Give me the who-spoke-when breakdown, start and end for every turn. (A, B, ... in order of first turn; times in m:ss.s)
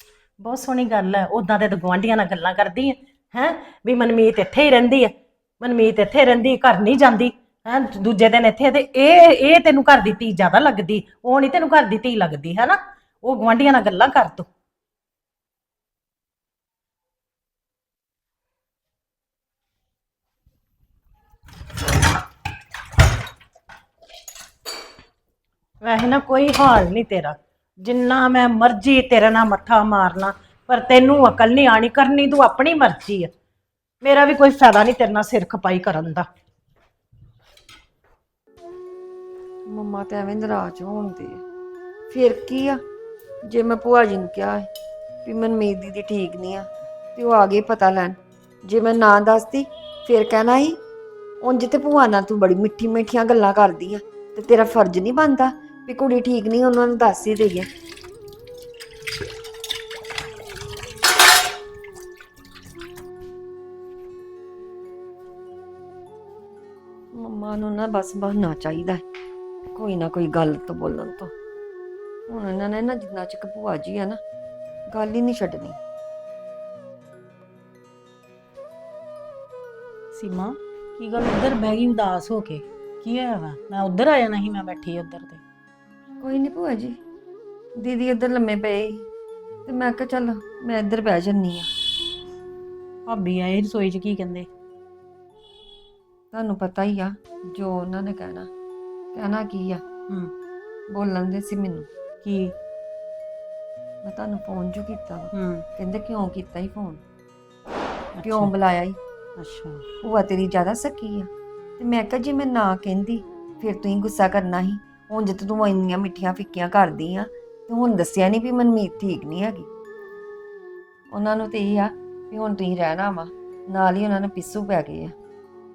0:00.4-0:14.5 A
0:25.8-0:33.3 A
0:34.0-0:36.2 A
0:39.7-0:41.4 B
0:42.1-0:42.8 B
0:43.5-0:44.7 B
0:45.2-0:50.8 B
0:51.4-0:57.7 B
1:07.1-1:09.0 B
1:09.7-1:11.3 B
1:12.3-1:14.2 B
1:14.9-1:15.8 B
1:20.1-1:25.4 C
1:26.2-1:27.0 B
1:27.8-1:29.0 B
1:29.7-1:31.7 B
1:33.1-1:34.5 C
1:36.3-1:38.5 B
1:39.1-1:39.8 B
1:40.9-1:41.9 B
1:42.2-1:42.5 C
1:44.0-1:47.0 B
1:45.3-1:45.6 C
1:48.2-1:48.5 C
1:48.2-1:49.0 B
1:49.4-1:49.8 C
1:50.0-1:59.7 B
2:01.1-2:05.1 B